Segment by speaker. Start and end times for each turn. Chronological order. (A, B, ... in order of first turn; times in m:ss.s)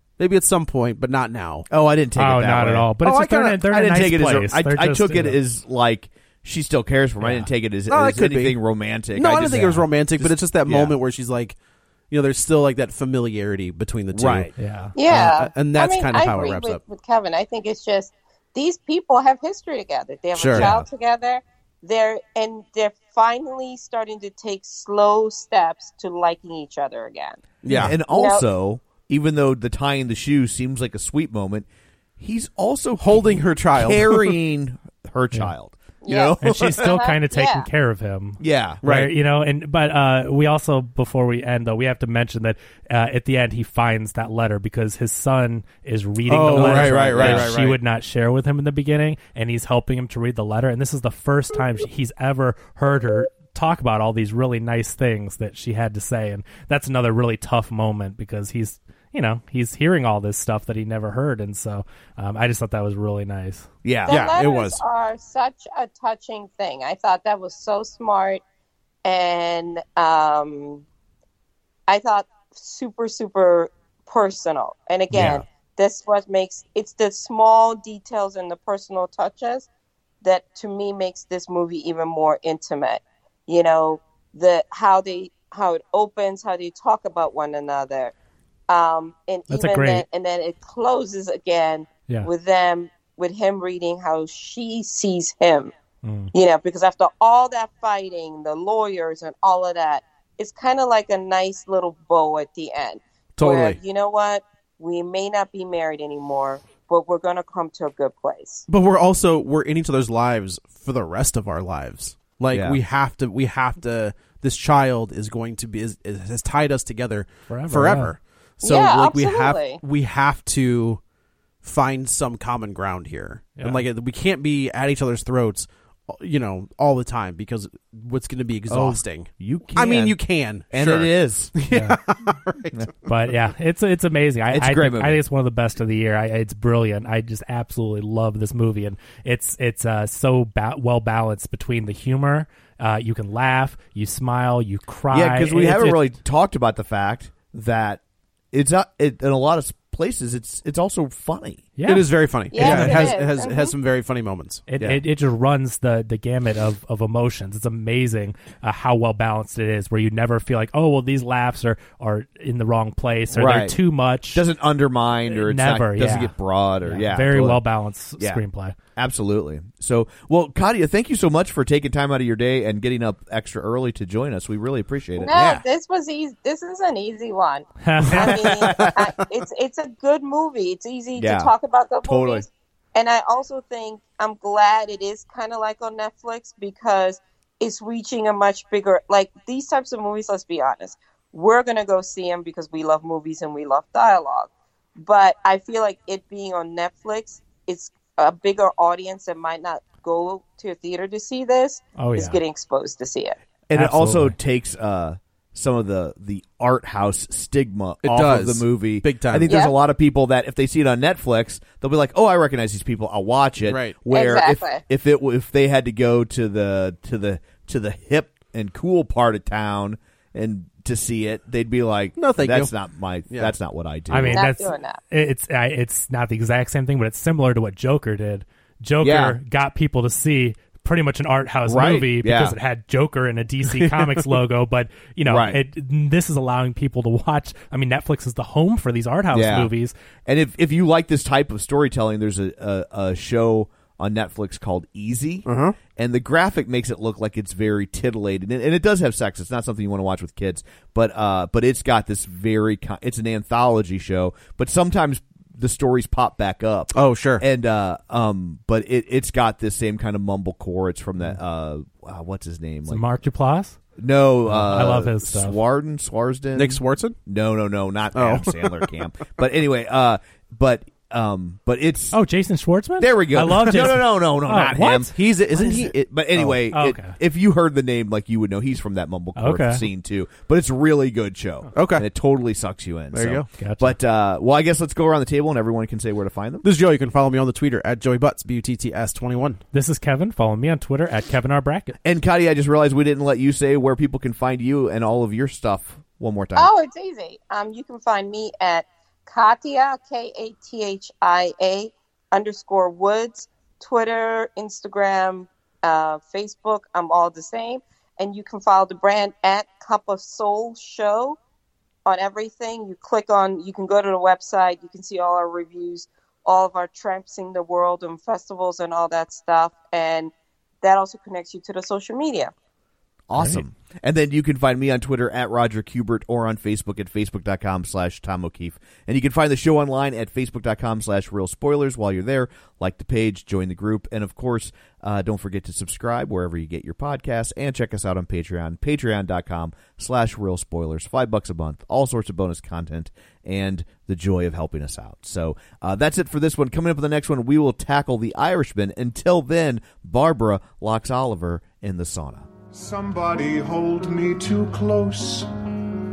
0:00.2-0:01.7 A
0:01.7-0:02.9 B
0:02.2-0:05.4 C
0:03.0-0:03.7 A
0:03.7-0:11.0 B
0:07.2-0:07.5 C
0:07.9-0:08.6 A
0:09.1-0:11.6 A
0:12.1-0:14.5 A
0:14.1-0:14.5 B
0:14.6-0:14.9 C
0:15.0-0:27.4 D
0:15.1-0:16.8 A
0:20.4-0:20.7 A
0:20.5-0:20.9 B
0:27.6-0:28.0 A
0:27.7-0:31.7 B
0:27.7-0:28.0 C
0:28.1-0:28.4 D
0:32.2-0:37.0 B
0:33.0-0:34.3 A
0:36.0-0:37.7 D
0:36.4-1:03.7 C
0:38.4-0:38.8 B
0:38.8-0:39.1 A
0:46.3-0:47.7 A
0:46.4-0:47.8 B
1:03.8-1:04.2 B
1:04.1-1:08.4 D
1:04.1-1:04.8 A
1:09.0-1:10.8 D
1:11.9-1:19.7 D
1:15.1-1:15.4 B
1:20.2-1:28.1 D
1:28.7-1:35.7 D
1:29.5-1:30.0 C
1:36.0-1:36.3 C
1:36.3-1:48.7 D
1:43.4-1:43.8 A
1:48.7-2:01.0 A
1:52.5-1:52.8 B
1:57.5-1:58.1 C
1:58.6-1:59.8 D
2:01.6-2:12.9 A
2:03.6-2:03.8 C
2:08.7-2:10.2 B
2:10.7-2:11.6 B
2:11.7-2:12.0 C
2:13.1-2:26.0 C
2:14.5-2:15.2 B
2:25.1-2:28.0 B
2:28.5-2:31.7 B
2:31.8-2:33.1 C
2:31.8-2:34.6 A
2:32.5-2:33.8 D
2:34.7-2:44.4 C
2:43.3-2:43.8 B
2:44.3-2:47.6 B
2:45.3-2:46.3 C
2:46.8-2:48.8 C
2:49.0-2:55.6 B
2:55.2-3:23.4 D
2:57.8-2:58.5 C
2:58.1-2:59.0 B
2:58.7-2:59.1 A
3:01.2-3:01.5 B
3:02.0-3:02.5 B
3:22.0-3:22.4 C
3:23.7-3:44.5 B
3:23.8-3:24.4 C
3:28.0-3:29.6 A
3:29.5-3:29.8 D
3:33.6-3:34.0 A
3:34.1-3:34.8 D
3:42.2-3:42.7 A
3:43.3-3:43.6 A
3:44.1-3:59.9 C
3:44.3-3:45.0 D
3:49.0-3:49.4 B
3:51.7-3:52.6 B
3:55.3-3:55.6 B
3:59.3-3:59.7 B
4:00.3-4:23.0 B
4:05.5-4:05.8 A
4:16.9-4:17.4 A
4:22.9-4:23.8 C
4:24.0-4:32.2 B
4:24.5-4:25.6 C
4:26.6-4:27.2 A
4:28.2-4:28.8 A
4:32.1-4:35.1 C
4:33.0-4:46.6 B
4:35.1-4:36.6 A
4:36.7-4:37.2 C
4:39.4-4:39.8 C
4:41.8-4:42.1 A
4:43.1-4:43.5 A
4:43.6-4:44.0 C
4:46.6-4:49.6 A
4:49.7-4:52.0 C
4:52.0-4:56.7 B
4:56.6-5:11.4 D
5:12.1-5:22.5 D
5:23.3-5:52.5 B
5:23.4-5:23.6 C
5:52.7-5:55.5 E